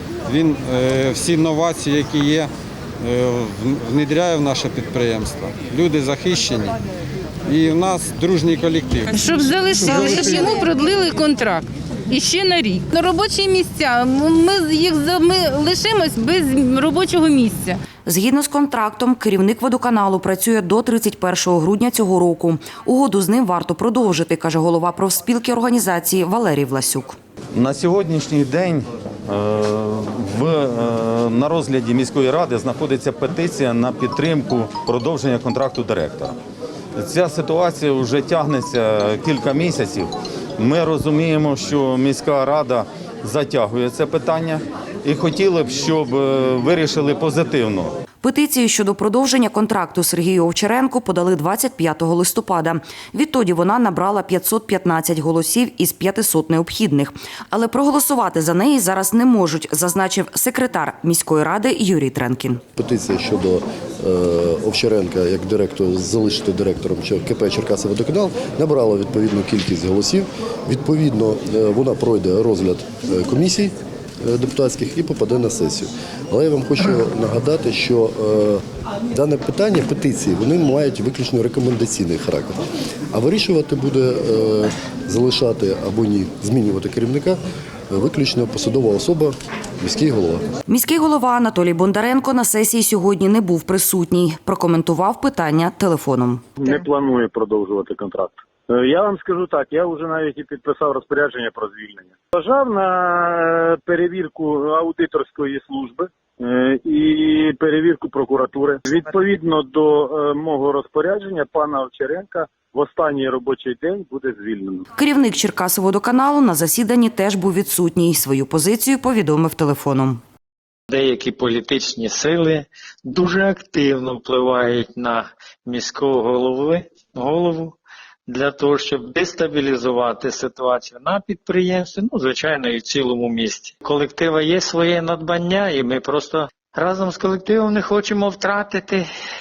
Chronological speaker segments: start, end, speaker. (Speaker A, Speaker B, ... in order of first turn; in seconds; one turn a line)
Speaker A: 0.2-6.8
Speaker A: 7.5-9.2
Speaker B: 9.1-17.8
Speaker A: 9.9-10.4
Speaker C: 18.1-27.2
Speaker D: 27.6-36.3
Speaker D: 37.0-40.0
Speaker D: 40.6-47.9
Speaker C: 48.2-62.6
Speaker E: 62.8-82.6
Speaker E: 83.1-87.4
Speaker E: 87.9-90.4
Speaker C: 90.7-96.4
Speaker F: 96.6-114.8
Speaker C: 115.0-120.2
Speaker G: 120.9-139.1